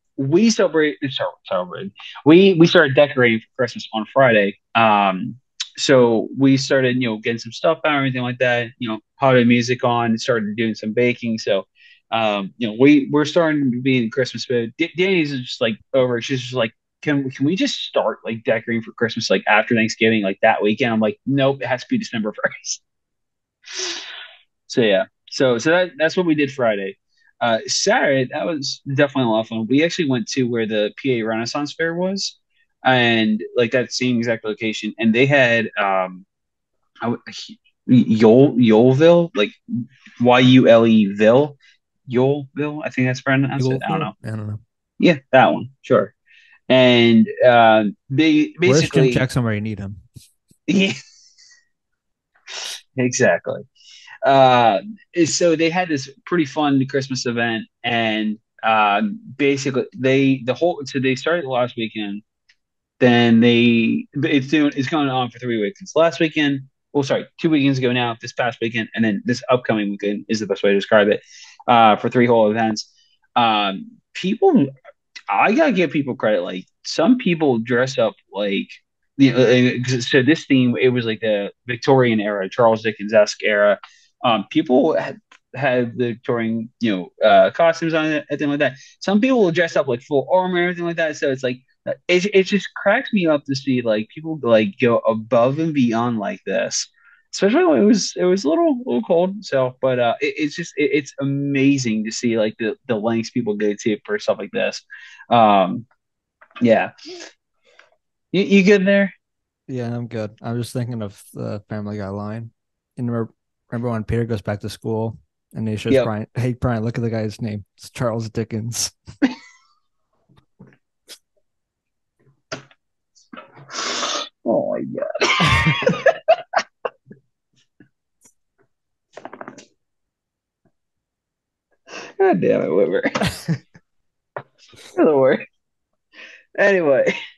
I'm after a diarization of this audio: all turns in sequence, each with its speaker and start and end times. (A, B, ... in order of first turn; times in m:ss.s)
0:00.2-0:22.8 A
0:23.7-0:24.0 A
0:24.7-0:36.3 A
0:37.0-0:39.6 A
0:40.2-0:44.1 A
0:43.6-0:44.6 B
0:45.0-0:46.1 A
0:46.7-0:49.2 A
0:48.7-0:50.0 B
0:50.7-0:51.0 A
0:53.0-0:53.6 A
0:54.2-1:02.2 A
1:03.0-1:14.7 A
1:15.3-1:45.9 A
1:46.6-1:46.9 A
1:48.3-1:49.1 A
1:49.7-1:58.9 B
2:03.7-2:06.1 A
2:12.2-2:13.1 A
2:14.9-2:15.4 A
2:16.6-2:17.1 A